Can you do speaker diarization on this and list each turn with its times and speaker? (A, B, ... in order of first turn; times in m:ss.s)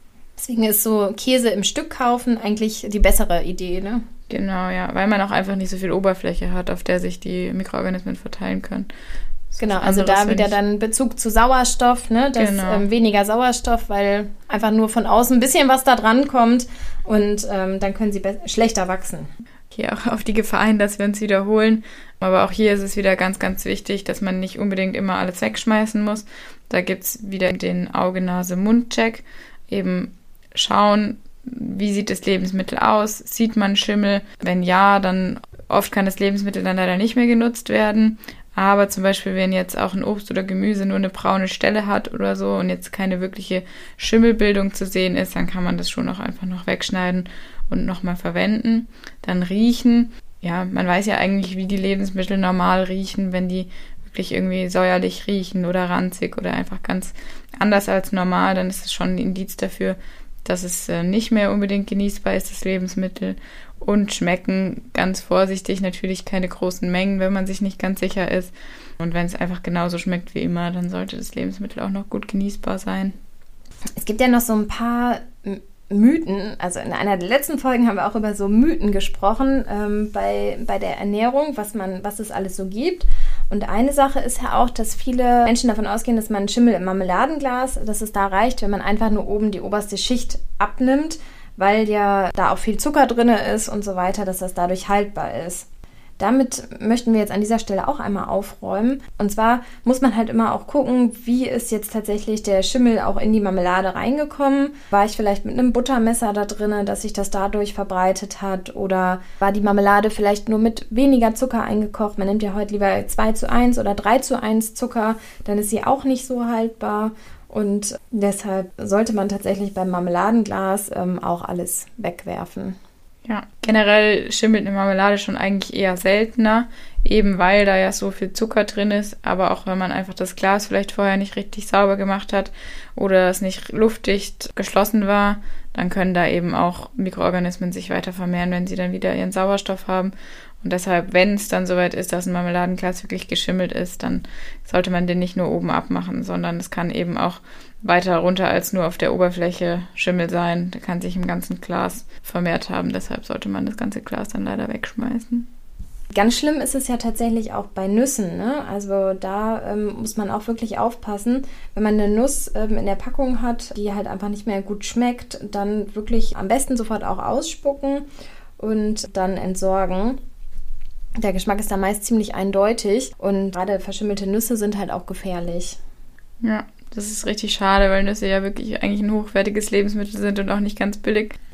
0:00.4-0:04.0 A
0:04.3-0:08.9 B
0:09.5-0:10.5 B
0:09.6-0:19.3 A
0:12.4-0:12.8 B
0:19.7-1:13.2 B
1:14.0-1:35.7 A
1:36.2-2:02.8 A
2:03.2-2:35.5 B
2:36.1-2:48.0 A
2:48.6-2:50.2 A
2:51.2-2:55.8 A
2:56.4-3:01.4 B